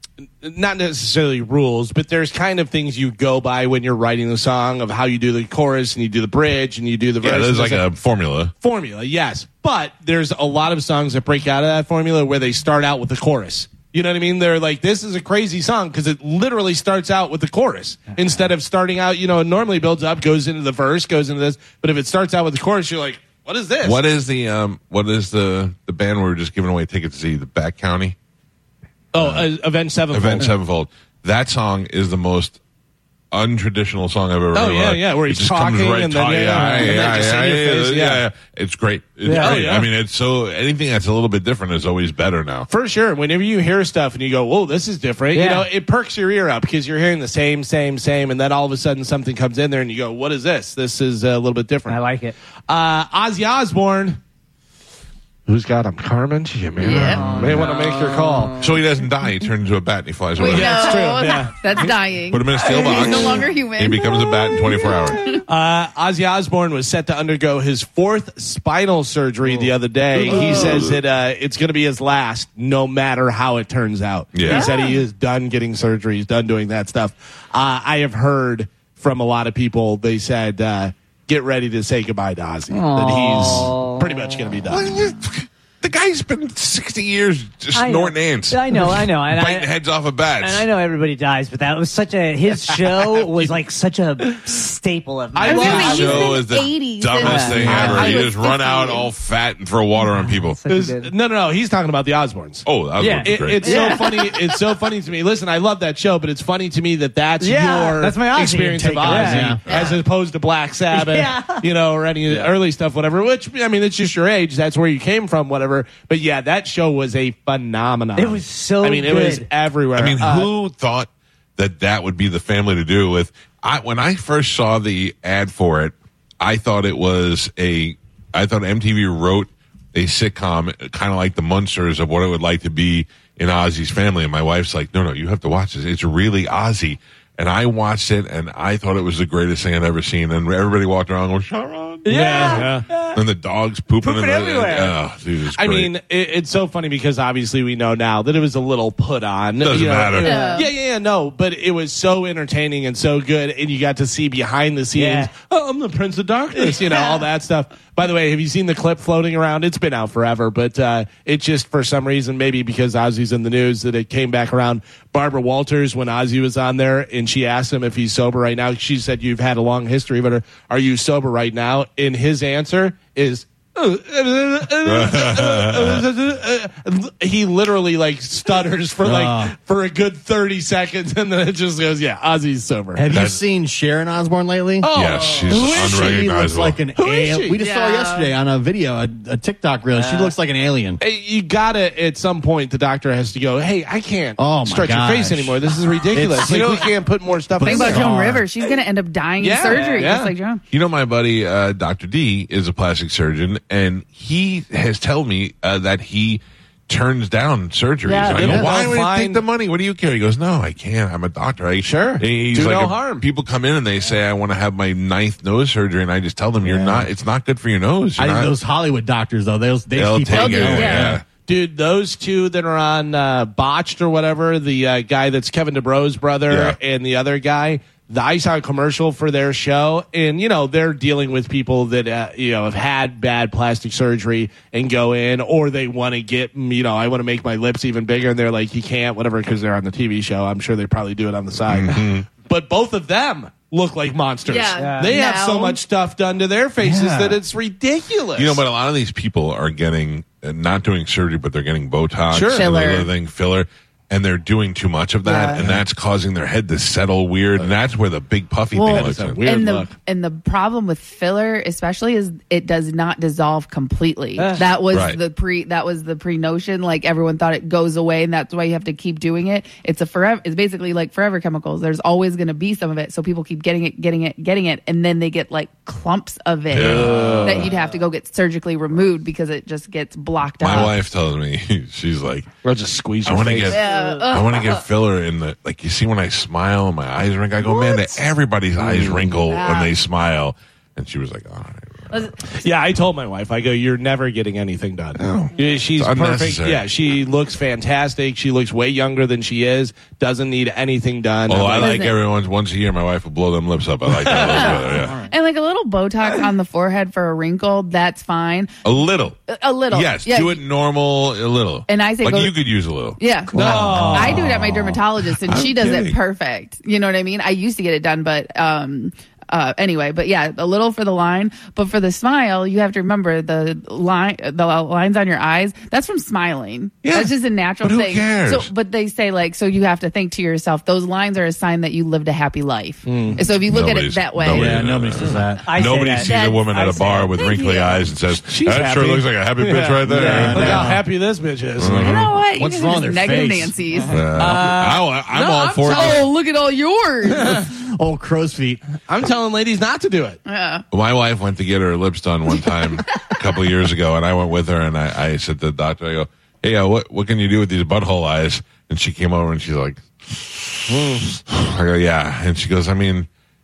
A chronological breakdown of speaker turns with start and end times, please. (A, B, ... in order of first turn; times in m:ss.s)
0:00.4-0:07.9 A
0:07.2-0:08.5 B
0:08.6-0:24.0 A
0:23.8-0:28.2 B
0:29.1-0:30.5 A
0:29.2-0:29.5 B
0:30.1-0:32.6 B
0:33.3-0:42.7 B
0:34.5-0:38.2 A
0:39.2-0:39.6 C
0:39.3-0:39.9 A
0:42.7-0:52.0 A
0:45.3-0:45.7 C
0:51.9-0:52.4 C
0:52.7-0:54.2 A
0:55.5-0:58.5 A
0:56.8-0:57.3 D
0:56.9-0:57.7 B
0:57.1-0:58.6 C
0:58.6-1:01.0 B
1:00.4-1:05.4 D
1:00.4-1:01.9 A
1:02.3-1:05.2 B
1:05.5-1:24.9 A
1:10.2-1:11.0 B
1:10.3-1:10.8 C
1:10.3-1:10.6 D
1:14.3-1:14.7 B
1:14.5-1:15.0 D
1:22.7-1:24.4 C
1:24.7-1:30.7 B
1:27.7-1:29.7 C
1:30.4-1:36.3 C
1:35.4-1:36.4 A
1:35.5-1:39.1 D
1:35.6-1:40.6 B
1:37.2-1:37.7 C
1:37.6-1:38.3 A
1:40.0-1:41.1 C
1:40.7-1:42.7 A
1:42.6-1:43.9 B
1:43.0-1:44.4 C
1:43.2-2:00.5 A
1:47.4-1:49.6 C
1:48.8-1:49.6 E
1:49.7-1:50.0 B
1:50.9-1:51.6 C
1:58.2-1:59.5 C
2:00.0-2:25.9 B
2:22.0-2:23.2 C
2:22.1-2:22.9 A
2:24.0-2:25.0 C
2:25.6-3:03.2 A
2:29.6-2:30.5 B
2:30.2-2:30.7 D
2:30.2-2:30.7 C
2:35.0-2:35.3 C
2:36.6-2:37.1 C
2:54.8-2:56.1 B
2:59.0-2:59.6 E
3:03.0-3:04.9 E
3:03.1-3:03.4 B
3:04.8-3:06.2 A
3:04.9-3:06.8 B
3:05.5-3:11.0 E
3:07.0-3:07.6 A
3:07.6-3:08.3 D
3:10.0-3:10.3 A
3:11.0-3:18.1 A
3:14.4-3:16.9 E
3:17.6-3:18.5 E
3:17.6-3:20.6 D
3:19.4-3:20.3 A
3:19.7-3:20.1 C
3:20.7-3:38.5 B
3:28.1-3:29.4 A
3:28.3-3:28.7 E
3:31.8-3:33.2 A
3:36.6-3:37.0 E
3:38.2-3:41.2 E
3:39.9-3:41.2 B
3:40.3-3:41.2 D
3:41.4-4:08.6 A
3:46.5-3:46.8 B
4:01.7-4:02.3 B
4:04.5-4:05.8 D
4:04.8-4:05.1 C
4:06.8-4:07.4 E
4:08.4-4:19.4 B
4:12.3-4:12.7 A
4:12.5-4:13.1 D
4:15.2-4:15.7 D
4:18.7-4:41.0 D
4:18.9-4:19.9 A
4:24.4-4:24.7 C
4:24.9-4:25.2 B
4:36.7-4:37.6 B
4:36.7-4:37.7 A
4:40.6-4:42.5 B
4:42.6-4:43.9 A
4:43.2-4:52.3 B
4:43.7-4:44.8 D
4:47.7-4:48.1 D
4:48.8-4:49.3 A
4:49.4-4:49.9 D
4:52.1-4:52.5 D
4:52.5-5:02.0 A
4:55.2-4:56.8 B
5:01.5-5:05.2 B
5:01.8-5:02.2 D
5:04.1-5:05.0 A
5:04.4-5:08.7 D
5:08.8-5:09.4 B
5:09.5-5:10.6 D
5:09.9-5:16.2 B
5:11.9-5:12.6 D
5:13.2-5:35.1 D
5:13.5-5:14.3 A
5:13.8-5:14.5 E
5:13.9-5:14.4 C
5:27.0-5:28.7 B
5:33.1-5:33.4 A
5:33.6-5:40.9 B
5:34.5-5:35.7 E
5:35.6-5:37.3 C
5:36.2-5:38.1 D
5:38.3-5:42.1 A
5:40.1-5:41.0 E
5:41.8-5:42.3 B
5:41.9-5:44.2 D
5:42.4-5:43.8 E
5:44.1-5:46.3 B
5:44.4-5:45.0 C
5:45.3-5:46.3 A
5:45.6-5:47.7 D
5:47.3-5:47.6 A
5:47.7-5:48.8 E
5:49.1-5:50.4 A
5:50.5-5:50.8 D
5:50.9-6:03.3 B
6:00.9-6:01.4 A